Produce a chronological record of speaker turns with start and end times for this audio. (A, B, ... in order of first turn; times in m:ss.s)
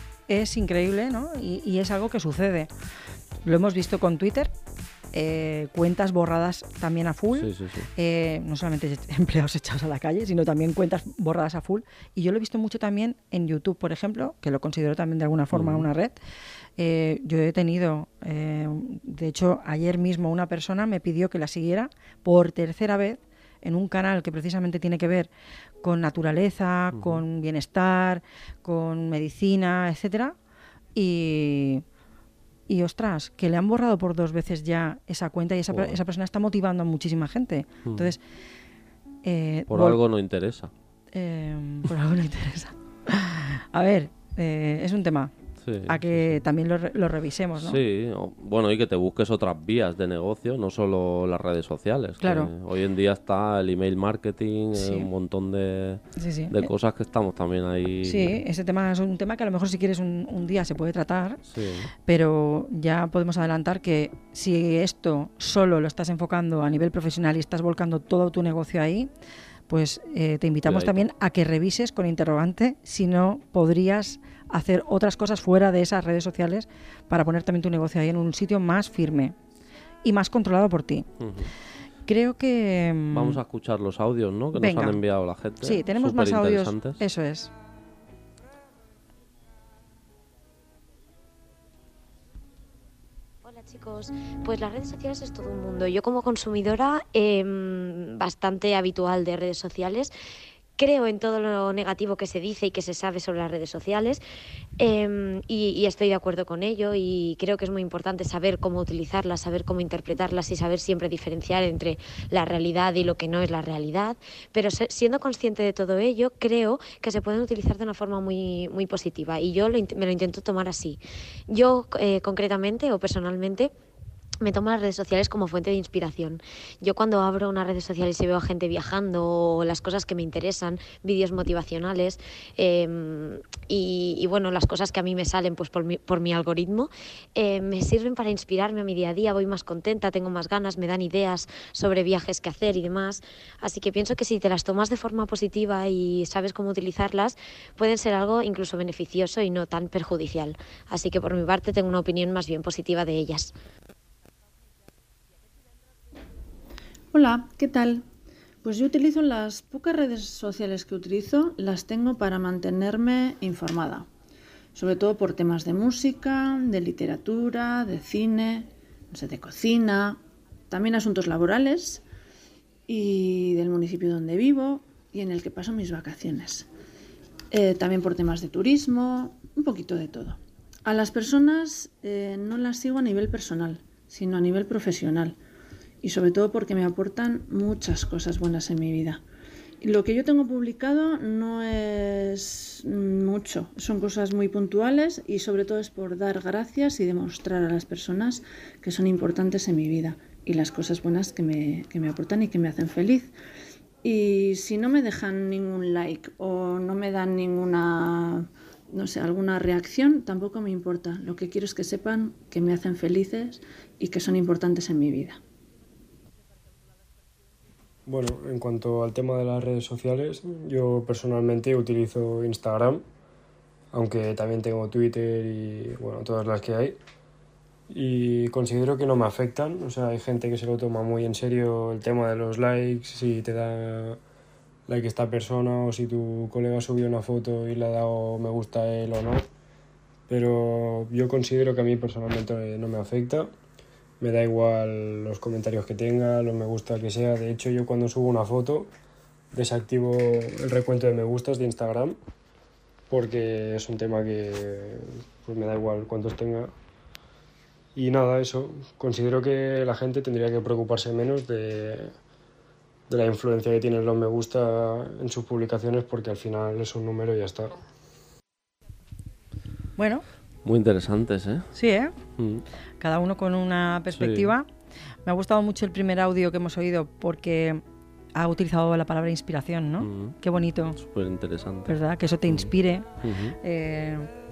0:00.3-0:02.7 A
0:03.4-0:04.5 A
0:05.1-0:16.2 A
0:07.3-0:07.9 B
0:15.5-0:15.9 B
0:16.8-0:25.3 A
0:25.8-0:30.4 A
0:26.9-0:27.2 B
0:30.9-0:31.8 A
0:32.7-0:38.2 A
0:35.7-0:36.0 B
0:37.8-0:38.1 B
0:39.2-0:40.0 A
0:39.7-0:40.7 B
0:41.1-0:45.3 A
0:45.6-0:46.3 B
0:45.9-0:47.8 A
0:47.6-0:58.4 B
0:52.2-0:52.5 A
0:54.7-0:55.1 A
0:56.2-0:56.7 A
0:58.0-1:01.4 A
1:01.5-1:01.9 B
1:02.0-1:09.1 A
1:09.7-1:19.4 A
1:10.6-1:11.0 B
1:20.0-1:21.1 A
1:21.2-1:21.5 B
1:22.1-1:23.4 A
1:23.1-1:27.0 B
1:24.5-1:25.0 A
1:25.6-1:27.5 A
1:33.4-1:40.1 C
1:40.8-1:44.2 C
1:44.8-2:03.7 C
2:04.4-2:33.5 C
2:37.1-2:38.0 D
2:38.6-2:44.1 D
2:44.7-2:52.0 D
2:52.9-2:56.7 D
2:57.5-3:05.4 D
3:06.0-3:09.2 D
3:09.8-3:23.3 D
3:24.0-3:35.4 D
3:38.0-3:43.0 E
3:43.9-3:47.0 E
3:47.9-3:54.2 E
3:54.9-3:59.5 E
4:00.3-4:03.5 E
4:04.2-4:08.9 E
4:09.5-4:12.2 E
4:13.1-4:16.7 E
4:17.9-4:22.1 E
4:23.1-4:27.8 E
4:30.0-4:30.2 A
4:30.6-4:31.7 B
4:31.7-4:32.1 A
4:32.4-4:32.6 B
4:33.0-4:34.7 A
4:34.1-4:34.5 B
4:35.2-4:37.8 A
4:38.3-4:41.0 A
4:40.0-4:40.3 B
4:41.0-4:42.0 B
4:41.9-4:43.1 A
4:43.2-4:43.6 B
4:43.6-4:44.3 A